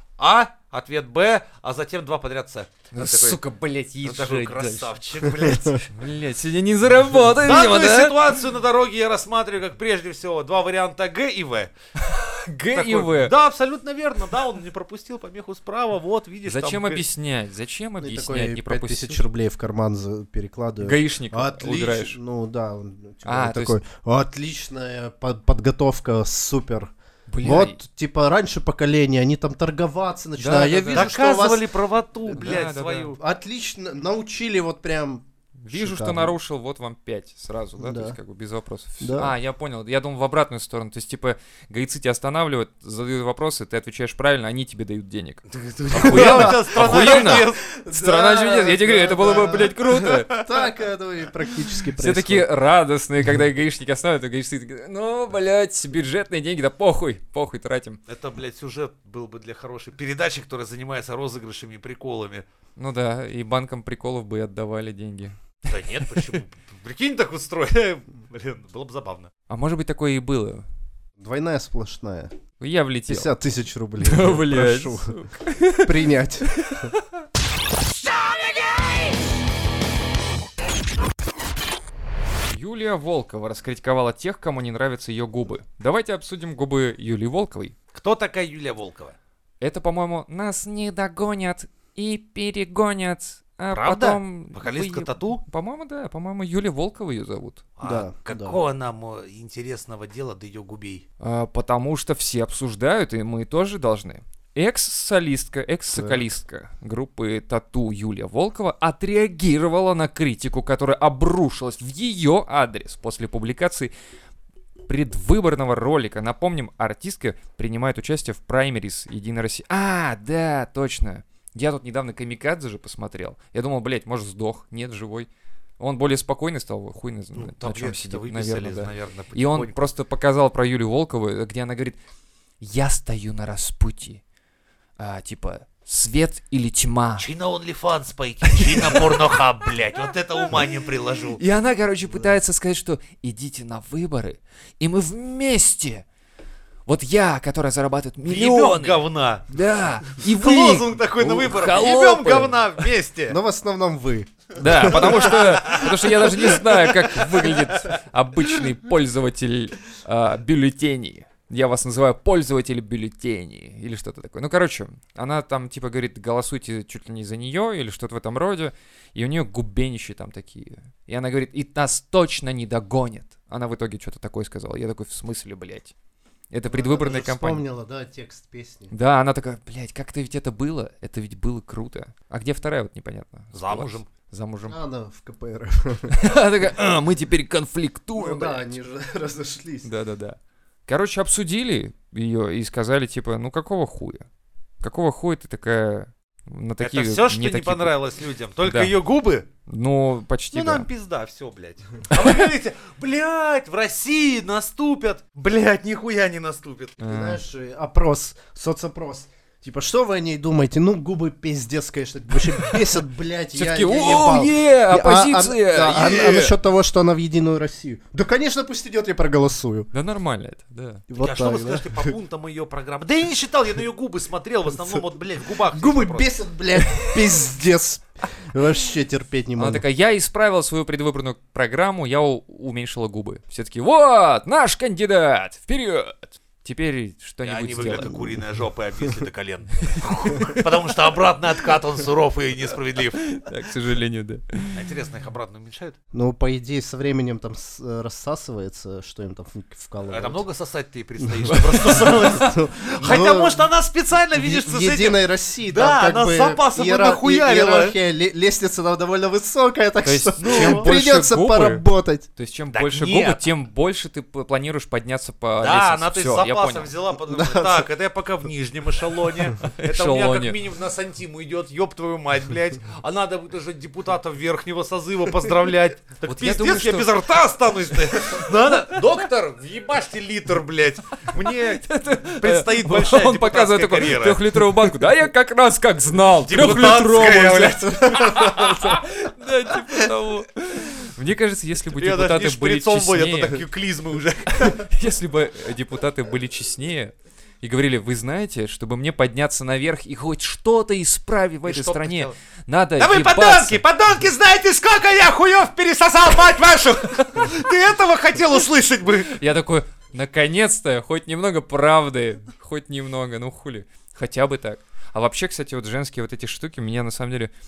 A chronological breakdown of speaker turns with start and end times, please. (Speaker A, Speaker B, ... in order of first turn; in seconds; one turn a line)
Speaker A: 0.2-3.4
Speaker B: 2.9-5.0
Speaker A: 4.0-5.9
Speaker C: 5.4-5.8
Speaker B: 5.9-8.4
Speaker A: 7.4-11.7
Speaker B: 12.0-13.3
Speaker A: 12.7-17.1
Speaker B: 16.5-19.2
Speaker C: 18.0-31.7
Speaker B: 20.8-22.2
Speaker B: 23.2-23.8
Speaker B: 27.3-27.8
Speaker B: 30.4-31.1
Speaker A: 30.9-33.2
Speaker C: 32.3-36.4
Speaker B: 32.4-33.2
Speaker B: 35.6-50.5
Speaker C: 37.8-38.2
Speaker C: 39.0-39.4
Speaker A: 45.5-47.6
Speaker C: 46.0-52.5
Speaker B: 52.0-58.0
Speaker A: 58.1-62.4
Speaker B: 62.8-66.4
Speaker A: 65.7-69.3
Speaker B: 69.5-70.7
Speaker C: 71.2-72.3
Speaker B: 72.6-73.3
Speaker C: 73.1-75.2
Speaker B: 74.0-77.0
Speaker C: 75.8-76.8
Speaker B: 82.5-87.8
Speaker A: 87.9-89.2
Speaker B: 89.6-97.7
Speaker A: 93.7-95.4
Speaker A: 97.8-101.0
Speaker C: 97.8-98.6
Speaker B: 101.2-113.9
Speaker C: 105.9-106.2
Speaker B: 114.9-132.0
Speaker A: 127.3-129.7
Speaker B: 132.6-134.2
Speaker B: 135.0-137.3
Speaker A: 137.2-141.4
Speaker B: 138.5-139.4
Speaker B: 141.4-146.1
Speaker B: 146.9-152.7
Speaker A: 148.3-149.4
Speaker A: 150.3-153.4
Speaker C: 153.3-155.8
Speaker B: 154.6-175.9
Speaker A: 154.8-156.6
Speaker B: 176.5-177.6
Speaker C: 176.7-178.9
Speaker B: 178.9-184.8
Speaker A: 183.5-184.1
Speaker C: 184.7-186.2
Speaker B: 186.1-188.7
Speaker C: 188.2-189.9
Speaker B: 189.8-194.2
Speaker B: 194.8-197.9
Speaker A: 196.8-199.5
Speaker B: 198.6-198.9
Speaker B: 199.7-200.9
Speaker A: 200.5-207.0
Speaker B: 207.0-207.4
Speaker C: 207.0-219.9
Speaker B: 213.5-216.6
Speaker B: 219.9-221.1
Speaker C: 221.1-222.1
Speaker A: 221.2-226.4
Speaker C: 225.7-229.8
Speaker B: 226.8-227.4
Speaker B: 229.6-238.3
Speaker A: 237.4-239.9
Speaker C: 238.0-238.3
Speaker B: 239.8-240.9
Speaker A: 240.5-243.3
Speaker B: 243.1-244.9
Speaker A: 244.7-246.0
Speaker C: 246.1-250.4
Speaker A: 250.1-258.0
Speaker C: 251.2-253.7
Speaker B: 251.5-252.4
Speaker C: 254.3-262.3
Speaker B: 260.0-261.8
Speaker A: 260.4-260.9
Speaker B: 262.4-266.9
Speaker A: 262.7-263.4
Speaker A: 265.6-281.9
Speaker C: 267.3-267.9
Speaker B: 269.6-270.6
Speaker B: 276.2-277.1
Speaker B: 278.0-278.5
Speaker B: 281.4-293.7
Speaker A: 282.4-284.5
Speaker A: 286.5-289.0
Speaker A: 291.9-294.8
Speaker B: 294.5-303.8
Speaker A: 301.7-302.4
Speaker A: 303.0-309.3
Speaker B: 307.3-307.6
Speaker B: 309.3-317.5